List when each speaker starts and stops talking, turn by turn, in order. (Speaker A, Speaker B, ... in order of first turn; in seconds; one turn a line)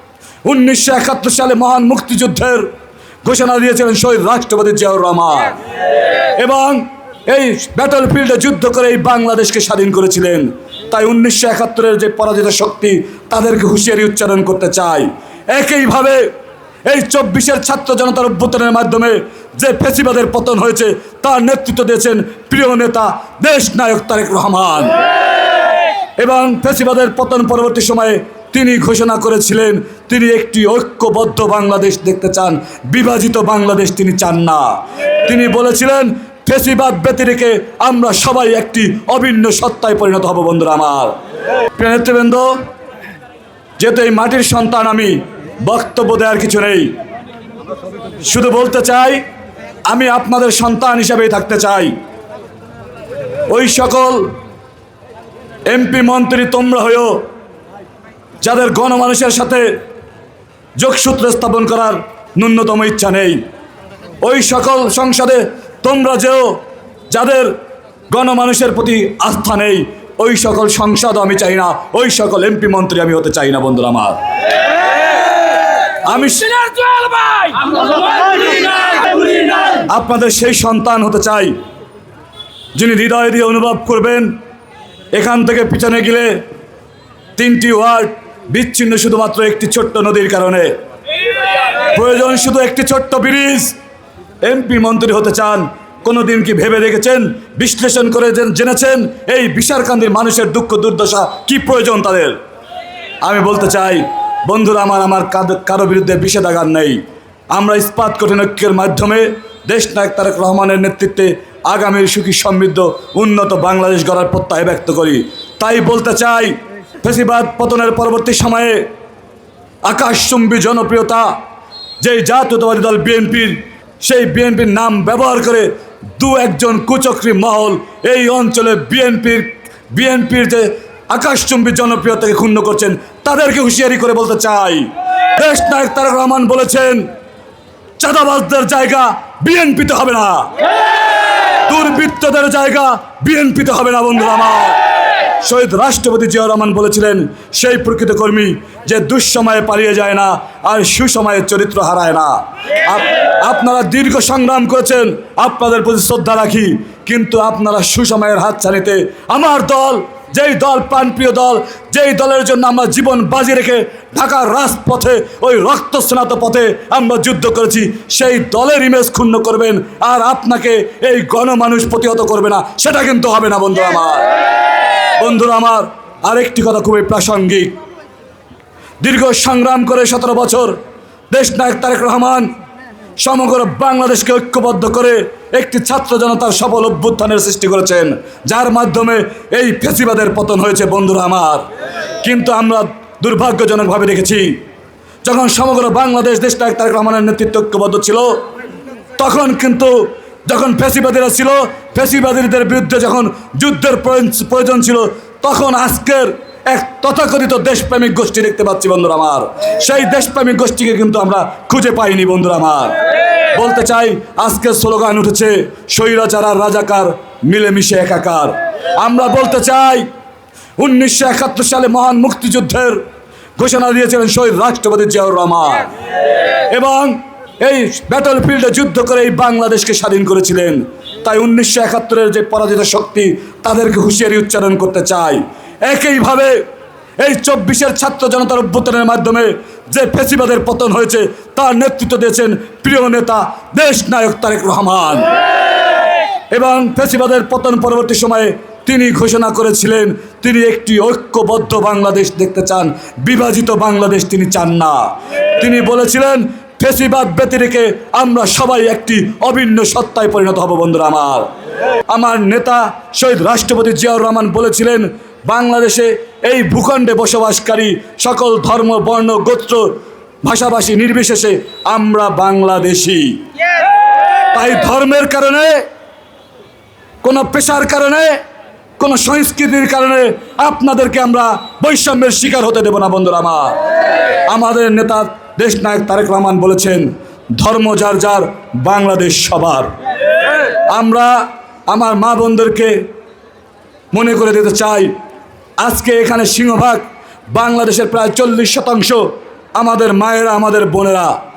Speaker A: 0.5-2.7
Speaker A: 3.2-5.5
Speaker A: 6.4-16.3
Speaker A: 16.9-25.0
Speaker A: 26.2-34.7
Speaker A: 35.3-41.1
Speaker A: 41.8-42.6
Speaker A: 43.8-46.9
Speaker A: 48.2-49.2
Speaker A: 49.9-51.9
Speaker A: 53.5-54.3
Speaker A: 55.7-57.2
Speaker A: 58.4-59.7
Speaker A: 60.8-63.4
Speaker A: 64.2-66.6
Speaker A: 67.1-67.5
Speaker A: 68.1-74.2
Speaker A: 76.0-77.8
Speaker A: 79.8-81.5
Speaker A: 82.8-84.3
Speaker A: 85.1-86.4
Speaker A: 87.4-90.7
Speaker A: 91.9-93.8
Speaker A: 94.4-102.4
Speaker A: 103.2-107.0
Speaker A: 107.5-118.9
Speaker A: 119.8-121.3
Speaker A: 122.0-137.1
Speaker A: 138.0-140.5
Speaker A: 141.7-144.8
Speaker A: 145.4-174.3
Speaker A: 175.2-177.8
Speaker A: 179.0-180.8
Speaker A: 181.3-182.5
Speaker A: 183.2-191.7
Speaker A: 192.2-194.6
Speaker A: 195.2-198.4
Speaker A: 199.2-213.0
Speaker A: 213.5-220.1
Speaker A: 220.8-223.0
Speaker A: 223.6-225.9
Speaker A: 226.7-236.6
Speaker A: 237.2-245.3
Speaker A: 246.5-255.1
Speaker A: 255.6-261.5
Speaker A: 262.1-269.9
Speaker A: 270.4-273.4
Speaker A: 274.5-275.8
Speaker A: 277.2-278.4
Speaker A: 279.0-283.8
Speaker A: 284.5-289.9
Speaker A: 290.9-293.0
Speaker A: 294.1-295.1
Speaker A: 295.8-297.0
Speaker A: 297.5-299.3
Speaker A: 299.8-301.3